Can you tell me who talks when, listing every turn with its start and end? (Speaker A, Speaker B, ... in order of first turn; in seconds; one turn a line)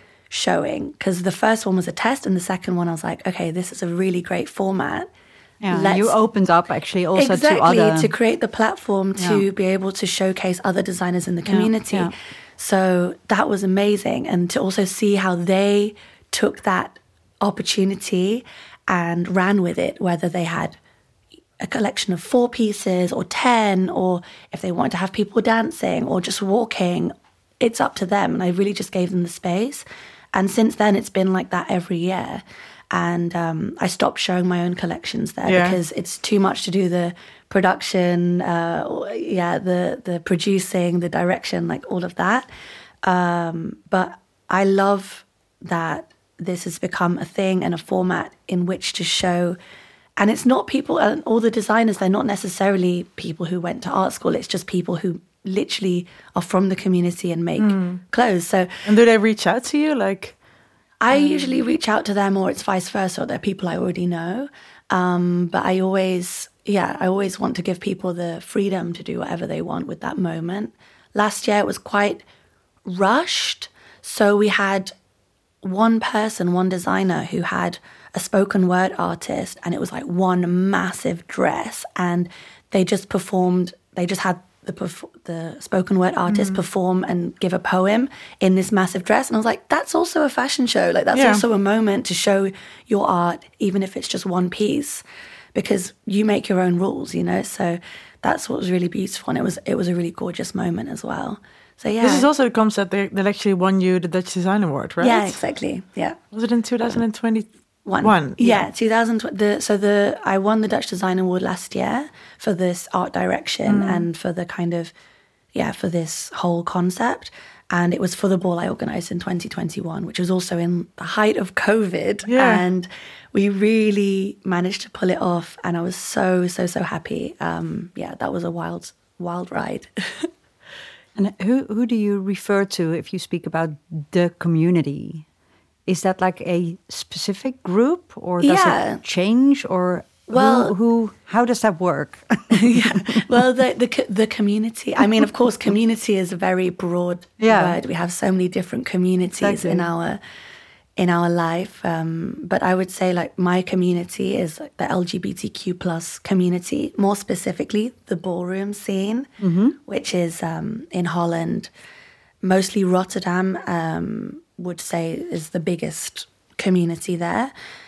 Speaker A: 0.3-5.1
Speaker B: 5.6-8.1
Speaker A: 5.7-6.2
Speaker A: 7.2-20.8
Speaker B: 9.2-9.4
Speaker B: 11.5-12.1
Speaker A: 21.6-42.5
Speaker C: 35.4-35.8
Speaker A: 43.0-49.6
Speaker A: 50.2-58.8
Speaker C: 57.6-58.0
Speaker C: 58.9-60.4
Speaker A: 61.0-72.2
Speaker A: 72.9-74.9
Speaker A: 75.6-95.0
Speaker C: 86.3-86.6
Speaker C: 91.1-91.4
Speaker A: 95.5-102.3
Speaker C: 101.9-105.4
Speaker A: 105.0-106.2
Speaker C: 106.3-107.5
Speaker A: 107.8-114.9
Speaker C: 108.0-108.7
Speaker C: 113.7-114.1
Speaker A: 115.5-130.3
Speaker C: 122.3-122.6
Speaker B: 131.2-135.3
Speaker B: 135.9-143.2
Speaker A: 138.4-139.0
Speaker A: 140.3-140.7
Speaker A: 142.5-150.2
Speaker B: 147.4-147.8
Speaker B: 149.4-149.9
Speaker A: 151.0-159.3
Speaker B: 159.4-159.8
Speaker A: 159.9-161.7
Speaker A: 162.4-167.5